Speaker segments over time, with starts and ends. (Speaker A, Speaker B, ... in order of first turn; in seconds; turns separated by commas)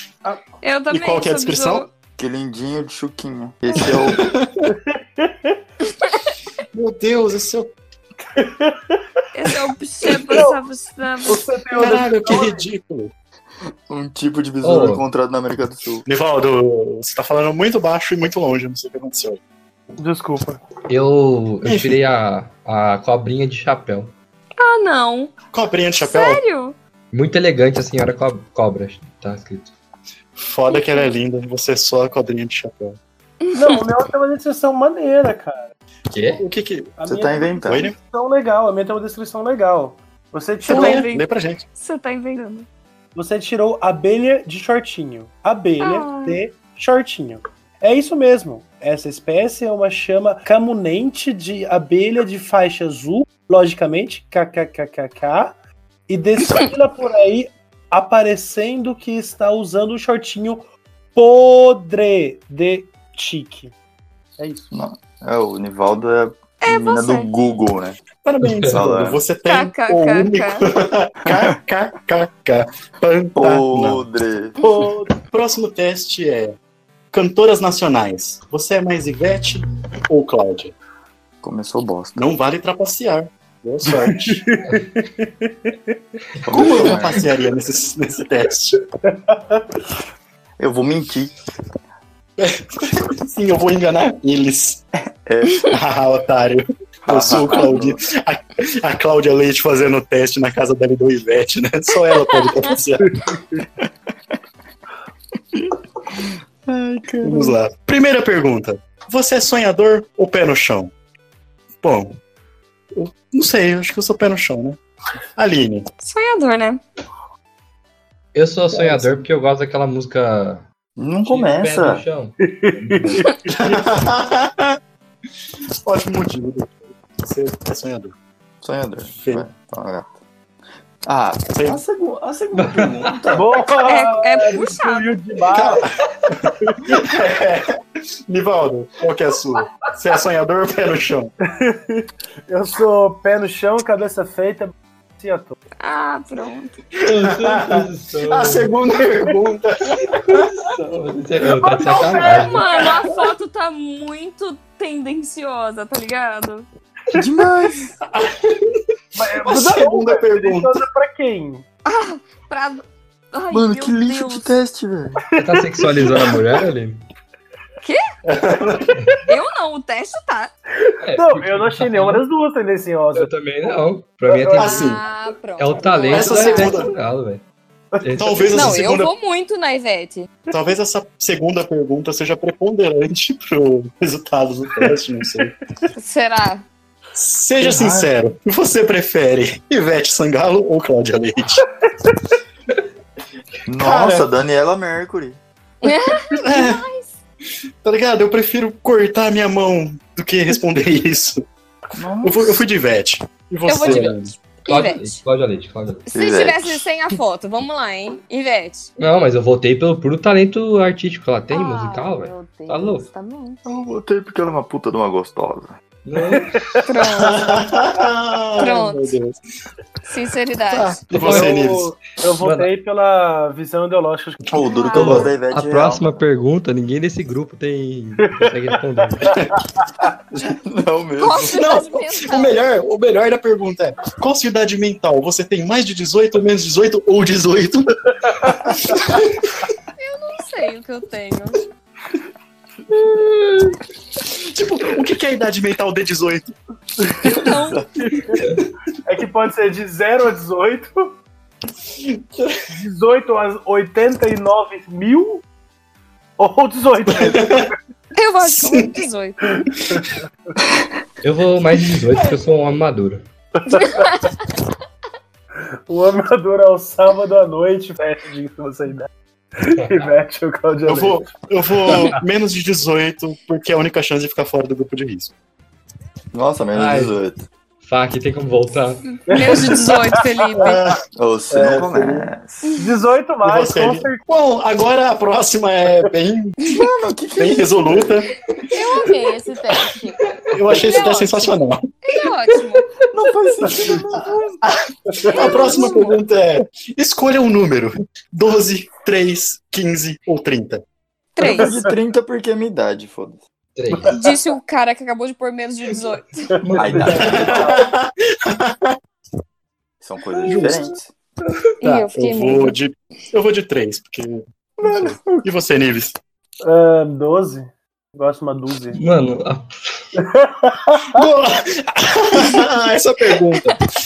Speaker A: 0.6-1.9, Speaker B: 0.9-1.9, Speaker C: 2.1-4.3, Speaker B: 3.8-4.7, Speaker D: 4.7-5.6, Speaker B: 6.7-7.7, Speaker D: 8.3-9.0, Speaker A: 9.3-11.4, Speaker D: 10.3-10.6, Speaker D: 11.2-12.6, Speaker B: 11.7-13.1, Speaker C: 13.9-16.0, Speaker E: 14.6-15.0, Speaker B: 16.1-19.4, Speaker D: 20.0-20.6, Speaker E: 20.9-24.1, Speaker B: 21.6-22.0, Speaker A: 24.6-25.3, Speaker B: 25.5-26.4, Speaker A: 26.0-26.8, Speaker E: 27.1-29.7, Speaker B: 30.4-33.0, Speaker A: 30.7-31.1, Speaker A: 33.4-33.8, Speaker D: 33.5-35.7, Speaker E: 36.1-36.4, Speaker B: 36.4-37.0, Speaker D: 37.0-41.0, Speaker C: 37.0-37.9, Speaker B: 37.6-38.0, Speaker B: 40.6-41.6, Speaker A: 40.7-42.7, Speaker D: 43.1-55.6, Speaker A: 45.8-46.4, Speaker D: 56.1-63.7, Speaker D: 64.4-64.7, Speaker C: 64.7-68.0, Speaker A: 66.6-67.3, Speaker B: 68.2-74.0, Speaker E: 68.4-68.8, Speaker C: 68.7-69.2, Speaker A: 69.5-70.7, Speaker C: 71.3-71.6, Speaker C: 73.4-74.6, Speaker D: 74.6-75.2, Speaker B: 75.3-76.5, Speaker B: 77.1-80.7, Speaker C: 81.4-82.2, Speaker B: 82.2-84.5, Speaker D: 84.0-86.0, Speaker C: 86.4-87.2, Speaker B: 86.5-88.8, Speaker E: 86.7-87.0, Speaker D: 89.0-89.7, Speaker C: 90.6-91.3, Speaker B: 92.4-94.8, Speaker C: 95.2-95.7, Speaker B: 95.7-103.1, Speaker C: 97.1-98.0, Speaker A: 102.1-102.7, Speaker D: 103.0-103.6, Speaker C: 105.5-107.5, Speaker B: 107.2-110.9, Speaker B: 111.8-112.2, Speaker B: 112.9-114.8, Speaker B: 115.3-115.8, Speaker A: 116.0-116.8, Speaker E: 118.3-120.6, Speaker B: 118.7-119.1, Speaker C: 121.0-122.0, Speaker E: 121.2-123.2, Speaker D: 122.4-123.9, Speaker B: 123.5-124.8, Speaker B: 125.8-128.1, Speaker C: 128.6-130.2, Speaker B: 129.1-129.5, Speaker C: 131.0-133.6, Speaker B: 131.5-131.8, Speaker E: 132.5-133.2, Speaker D: 133.3-135.9, Speaker A: 133.8-135.2, Speaker B: 135.5-141.3, Speaker D: 136.6-137.0, Speaker D: 141.5-145.6, Speaker A: 145.8-146.8, Speaker B: 147.0-150.5, Speaker E: 147.1-148.7, Speaker E: 150.0-152.7, Speaker D: 151.6-152.9, Speaker A: 151.9-156.7, Speaker C: 157.1-158.0, Speaker B: 158.1-158.8, Speaker D: 159.1-161.6, Speaker B: 159.4-160.8, Speaker A: 161.8-164.5, Speaker C: 163.5-165.2, Speaker D: 165.2-166.4, Speaker E: 165.4-167.0, Speaker B: 168.2-168.9, Speaker D: 168.7-169.2, Speaker A: 169.3-170.5, Speaker D: 170.8-173.3, Speaker E: 171.0-172.2, Speaker E: 173.1-174.8, Speaker D: 174.2-174.8, Speaker B: 174.6-175.0, Speaker A: 174.6-176.9, Speaker E: 175.6-177.4, Speaker B: 176.1-176.9, Speaker D: 177.9-178.4, Speaker E: 178.0-178.6, Speaker B: 178.2-179.1, Speaker A: 178.5-180.3, Speaker B: 180.5-185.5, Speaker A: 185.9-186.7, Speaker B: 187.1-191.6, Speaker C: 187.6-188.1, Speaker D: 192.0-192.3, Speaker C: 193.7-195.4, Speaker B: 193.8-194.3, Speaker A: 195.8-197.1, Speaker B: 196.4-196.8, Speaker B: 197.8-201.4, Speaker C: 201.9-202.6, Speaker B: 202.2-204.3, Speaker A: 203.6-205.2, Speaker E: 203.8-204.1, Speaker E: 204.7-206.1, Speaker A: 206.1-208.9, Speaker C: 206.1-206.8, Speaker E: 209.0-213.1, Speaker A: 211.5-213.6, Speaker C: 213.6-215.8, Speaker E: 216.0-216.6, Speaker D: 216.2-216.8, Speaker A: 216.8-217.5, Speaker B: 217.2-219.4, Speaker A: 218.6-219.1, Speaker A: 220.1-220.9, Speaker C: 220.7-221.0, Speaker B: 220.7-221.9, Speaker E: 221.1-221.6, Speaker D: 221.2-224.5, Speaker E: 222.4-222.7, Speaker C: 224.5-226.0, Speaker A: 224.6-225.3, Speaker E: 224.9-229.4, Speaker D: 229.2-230.1, Speaker C: 230.4-231.7, Speaker A: 231.2-232.6, Speaker B: 231.4-239.2, Speaker D: 238.2-239.1, Speaker A: 240.0-241.6, Speaker B: 244.3-246.6, Speaker D: 247.0-247.3, Speaker A: 247.2-247.8, Speaker C: 247.4-247.8, Speaker D: 248.1-248.4, Speaker D: 249.1-251.1, Speaker B: 252.0-252.6, Speaker D: 252.7-255.4, Speaker D: 256.4-257.7, Speaker B: 257.1-257.7, Speaker A: 258.1-259.4, Speaker B: 258.4-259.0, Speaker D: 259.6-260.1, Speaker E: 261.2-263.3, Speaker D: 263.6-264.2, Speaker A: 263.7-264.4, Speaker D: 265.9-271.3, Speaker E: 269.8-270.1, Speaker B: 270.9-275.3, Speaker D: 271.8-272.1, Speaker C: 276.3-277.4, Speaker E: 276.7-277.2, Speaker E: 277.8-279.2, Speaker A: 279.2-280.8, Speaker D: 279.3-280.4, Speaker B: 280.6-280.9, Speaker C: 281.1-282.8, Speaker B: 281.5-282.3, Speaker A: 282.6-283.0, Speaker D: 282.8-284.2, Speaker B: 283.4-286.7, Speaker C: 286.7-288.2, Speaker B: 287.4-288.3, Speaker A: 288.7-292.9, Speaker B: 290.5-291.8, Speaker C: 293.1-294.6, Speaker D: 293.6-293.9, Speaker B: 294.6-300.8, Speaker D: 295.1-295.5, Speaker A: 295.3-296.2, Speaker A: 301.4-301.7, Speaker D: 301.4-301.9, Speaker C: 301.4-303.4, Speaker E: 303.8-304.1, Speaker D: 303.9-304.3, Speaker A: 304.1-306.5, Speaker E: 306.6-307.5, Speaker D: 306.8-307.8, Speaker C: 306.8-307.8, Speaker B: 307.1-309.0, Speaker C: 310.0-311.1, Speaker B: 310.4-310.9, Speaker A: 311.8-312.8, Speaker B: 311.8-316.1, Speaker C: 314.8-315.4, Speaker D: 316.6-319.0, Speaker E: 318.9-320.1, Speaker D: 320.1-321.3, Speaker B: 321.1-323.8